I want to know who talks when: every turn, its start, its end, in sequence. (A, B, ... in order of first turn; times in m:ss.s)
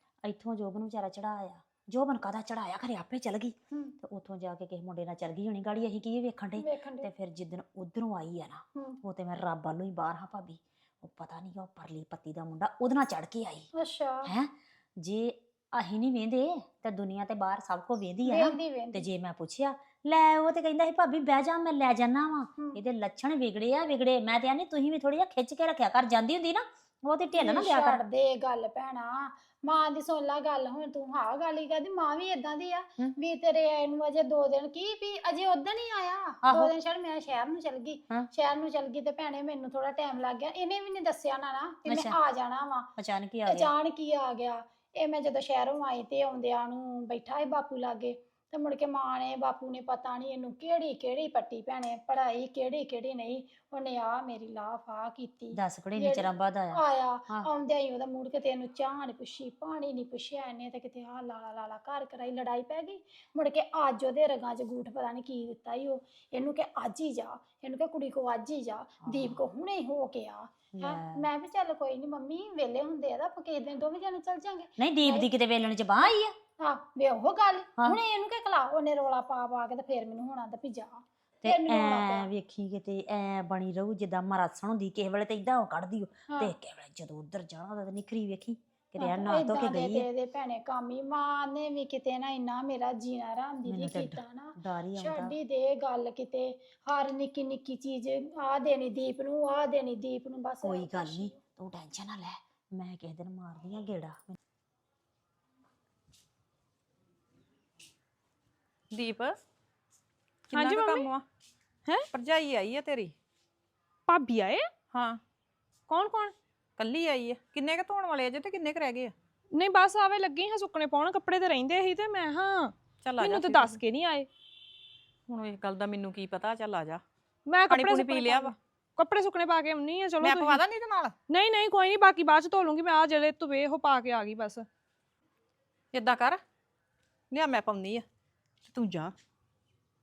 0:00.2-0:13.7 A
0:06.6-0:07.1 B
0:13.7-0:14.3 B
0:14.3-0:28.0 A
0:18.2-0:19.0 B
0:27.4-0:42.9 B
0:36.4-0:36.7 A
0:41.9-0:42.2 A
0:43.0-0:43.7 A
0:43.4-1:15.3 B
0:55.5-0:57.5 A
1:09.0-1:09.4 A
1:10.8-1:11.2 A
1:14.8-1:16.3 A
1:16.6-1:22.3 B
1:21.4-1:30.0 A
1:26.3-1:26.5 B
1:29.0-1:41.4 B
1:33.6-1:35.3 A
1:40.6-1:44.4 A
1:48.9-1:49.4 C
1:50.5-1:51.2 C
1:50.5-1:51.1 D
1:52.1-1:53.1 C
1:54.1-1:54.7 D
1:54.9-1:55.2 C
1:55.9-1:56.3 D
1:56.8-1:59.1 C
1:59.5-2:04.3 D
2:03.0-2:03.8 C
2:05.3-2:07.0 C
2:07.5-2:10.6 D
2:07.7-2:08.5 C
2:10.2-2:11.1 C
2:11.3-2:14.7 D
2:15.9-2:16.4 C
2:17.3-2:18.0 C
2:18.7-2:19.1 C